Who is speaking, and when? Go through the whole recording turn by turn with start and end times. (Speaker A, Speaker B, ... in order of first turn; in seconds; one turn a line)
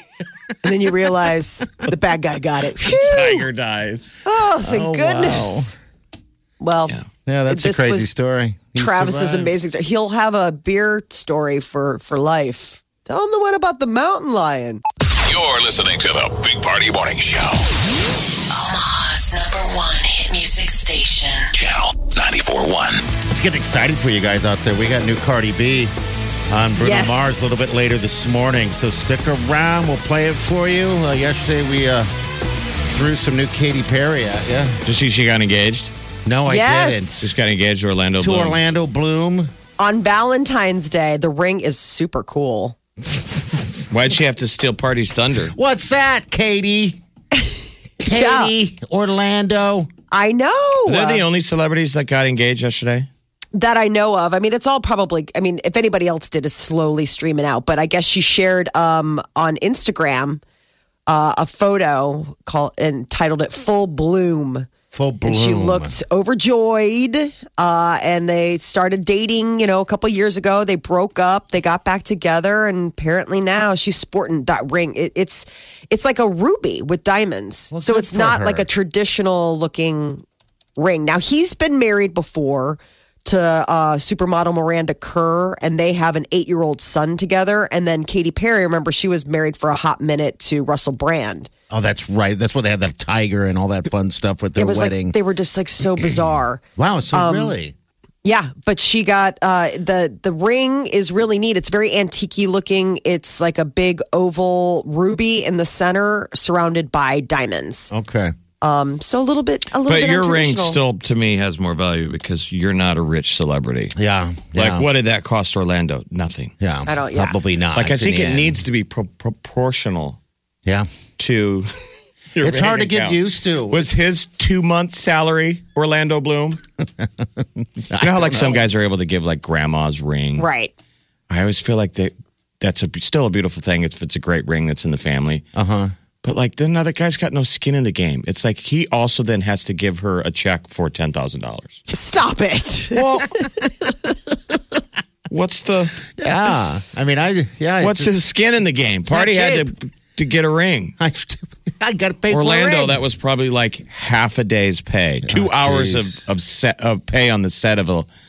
Speaker A: 0.6-3.4
Speaker B: 2.8-4.2
Speaker A: 4.2-5.8
Speaker C: 4.6-5.7
Speaker A: 6.6-6.9
Speaker C: 7.2-9.5
Speaker A: 7.5-8.1
Speaker A: 8.8-14.8
Speaker D: 15.2-17.7
Speaker E: 18.5-21.5
Speaker D: 21.5-23.1
Speaker C: 23.2-25.9
Speaker C: 26.5-32.1
Speaker A: 26.8-27.6
Speaker C: 32.8-34.8
Speaker B: 34.8-35.9
Speaker C: 36.2-37.4
Speaker A: 36.5-37.2
Speaker B: 37.2-38.6
Speaker C: 38.2-39.5
Speaker A: 39.8-42.8
Speaker B: 43.9-45.5
Speaker C: 45.5-47.0
Speaker A: 47.4-48.5
Speaker C: 48.0-49.9
Speaker A: 50.1-51.2
Speaker B: 50.9-53.1
Speaker A: 53.5-60.4
Speaker A: 61.1-64.7
Speaker C: 64.9-66.0
Speaker A: 65.2-80.2
Speaker C: 77.7-78.7
Speaker A: 80.8-91.5
Speaker C: 91.7-95.2
Speaker A: 94.6-96.6
Speaker C: 96.8-97.7
Speaker A: 97.1-97.6
Speaker A: 98.2-107.9
Speaker C: 107.9-108.3
Speaker A: 108.6-110.8
Speaker B: 109.8-113.9
Speaker C: 113.9-114.9
Speaker B: 114.5-116.5
Speaker C: 116.6-118.6
Speaker A: 116.8-117.3
Speaker B: 117.7-120.2
Speaker B: 121.2-121.7
Speaker B: 122.3-126.6
Speaker C: 122.4-123.8
Speaker C: 127.0-128.6
Speaker B: 128.0-130.4
Speaker A: 130.4-130.7
Speaker B: 131.3-135.4
Speaker C: 135.5-135.9
Speaker B: 136.2-141.8
Speaker A: 141.9-144.1
Speaker B: 142.9-143.3
Speaker B: 145.3-146.0
Speaker C: 146.2-148.1
Speaker B: 147.8-150.9
Speaker C: 149.1-149.7
Speaker C: 151.0-153.0
Speaker B: 152.3-158.1
Speaker C: 155.2-156.2